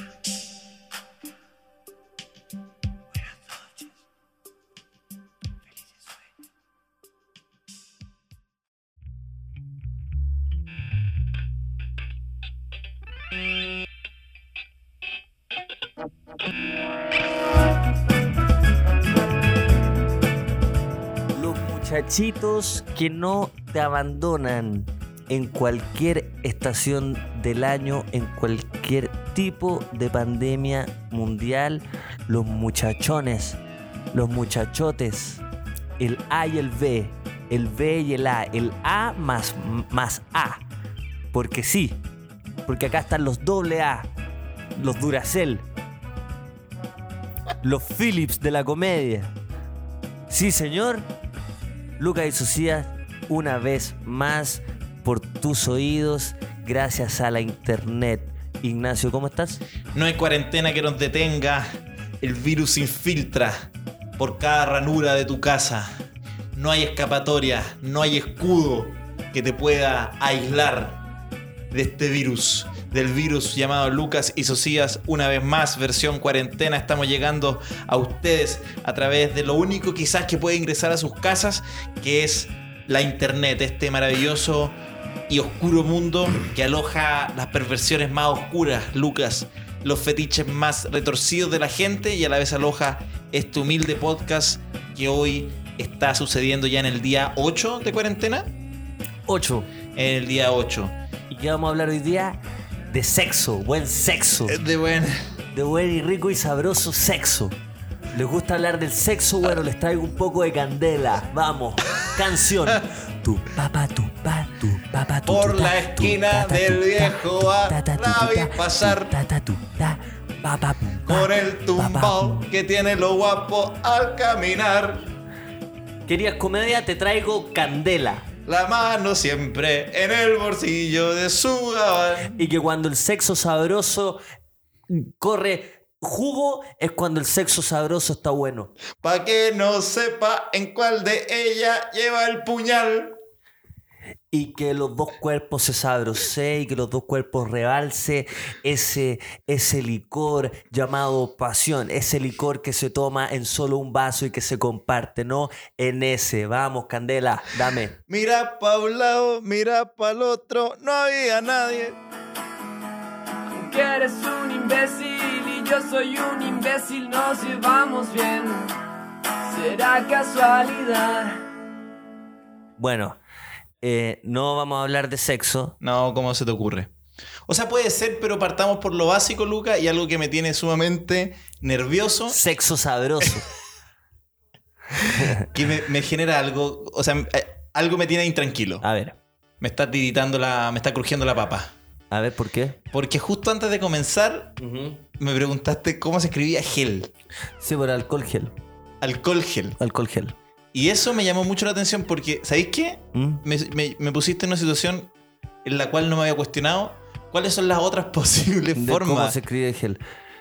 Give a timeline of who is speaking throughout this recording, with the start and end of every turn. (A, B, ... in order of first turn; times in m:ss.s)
0:21.3-0:33.6 A
0:34.1-0:35.4 A
0:36.0-0:40.6 A
0:41.3-0:42.0 A
0:42.6-0:44.1 A
0:44.7-0:45.6 A
0:47.6-0:49.3 A
0:50.3-0:51.1 A
0:52.0-0:59.6 A
0:59.9-1:06.0 B
1:06.5-1:11.0 B
1:11.7-1:24.8 B
1:25.3-1:38.5 B
1:39.3-1:39.7 A
1:39.9-1:40.9 B
1:41.3-1:42.4 A
1:42.9-1:44.6 A
1:44.4-1:45.2 B
1:45.5-1:47.6 A
1:48.1-2:02.5 A
1:55.2-1:59.1 B
2:01.0-2:05.1 B
2:06.1-2:08.3 A
2:08.4-2:12.4 B
2:12.4-2:14.2 A
2:14.9-2:18.7 A
2:19.0-2:23.1 B
2:24.3-2:38.0 A
2:38.1-2:42.0 B
2:43.5-2:48.8 C
2:49.4-2:51.4 C
2:52.8-2:53.2 A
2:53.8-2:55.8 A
2:55.8-2:56.9 B
2:57.5-3:02.4 B
3:02.3-3:03.5 A
3:05.0-3:05.4 A
3:05.1-3:08.8 B
3:08.8-3:09.2 A
3:09.6-3:11.7 B
3:12.1-3:12.8 A
3:12.9-3:14.6 B
3:14.6-3:15.0 A
3:15.2-3:17.1 B
3:17.6-3:18.6 A
3:19.0-3:19.8 B
3:19.8-3:20.4 A
3:20.7-3:25.1 B
3:23.1-3:23.4 A
3:25.6-3:29.4 B
3:28.7-3:30.0 A